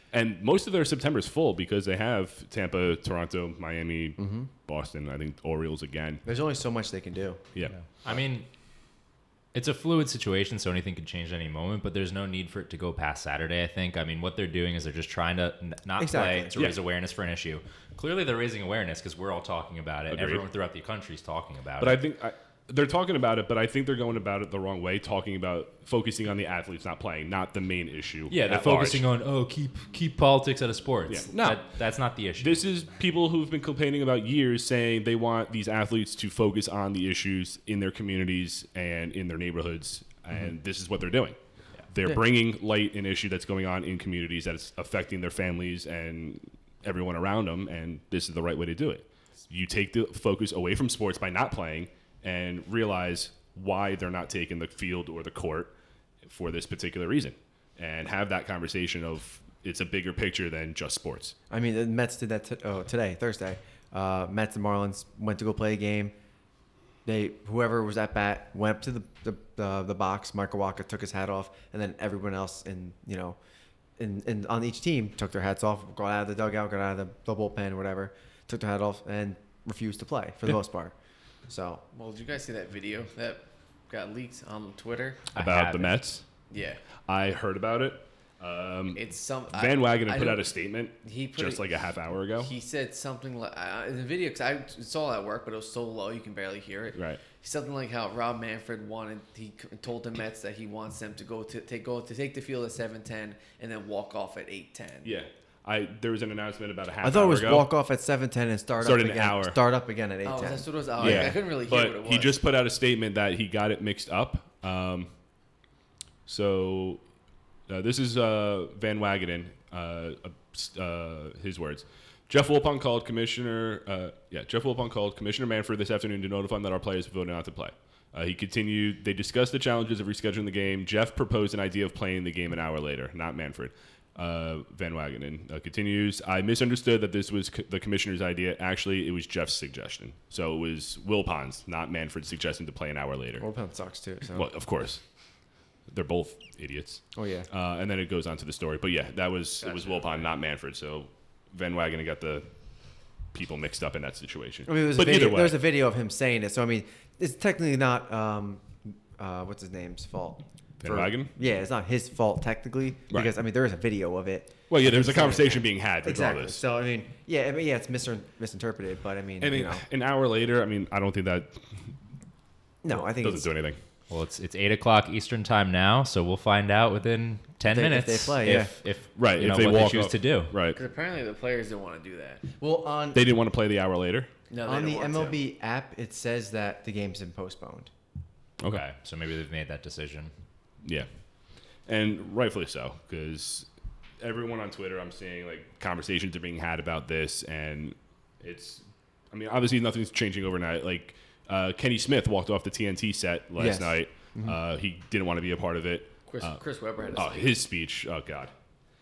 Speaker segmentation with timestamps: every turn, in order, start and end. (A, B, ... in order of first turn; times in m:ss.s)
0:00.1-0:06.2 A
0:04.2-0:04.5 B
0:06.2-0:07.4 B
0:07.7-0:08.5 C
0:09.5-0:22.0 C
0:16.0-0:16.7 B
0:20.1-0:20.4 A
0:21.8-0:29.0 A
0:28.3-0:32.9 C
0:31.1-0:31.6 A
0:32.4-0:41.4 A
0:41.9-0:55.7 A
0:56.2-1:01.4 A
1:01.5-1:06.1 B
1:07.0-1:13.4 B
1:14.0-1:20.9 B
1:21.5-1:21.8 B
1:21.9-1:25.3 D
1:25.3-1:26.0 C
1:25.4-1:26.2 A
1:26.5-1:26.8 D
1:27.1-1:32.5 A
1:28.9-1:30.5 D
1:31.0-1:31.7 D
1:32.4-1:45.1 D
1:36.9-1:37.2 A
1:45.0-1:47.7 A
1:47.0-1:51.4 B
1:48.8-1:49.6 A
1:50.2-1:52.4 D
1:51.0-1:55.1 A
1:56.2-1:57.0 A
1:57.7-2:23.4 A
2:23.4-2:24.5 B
2:24.3-2:25.0 A
2:25.9-2:32.5 A
2:27.1-2:27.5 B
2:29.6-2:30.3 D
2:33.3-2:35.6 A
2:34.6-2:49.8 B
2:40.8-2:41.3 A
2:44.7-2:46.6 A
2:49.4-2:51.6 A
2:52.8-2:53.5 B
2:52.9-2:53.8 A
2:54.1-3:00.6 C
2:57.7-2:58.7 B
2:59.2-3:00.8 A
3:00.7-3:02.4 D
3:02.6-3:03.2 B
3:03.1-3:04.3 A
3:04.5-3:05.4 D
3:04.6-3:07.9 B
3:08.6-3:10.3 C
3:10.8-3:11.1 A
3:11.9-3:13.7 A
3:14.2-3:26.6 A
3:23.6-3:24.6 B
3:26.3-3:27.6 D
3:27.1-3:28.5 A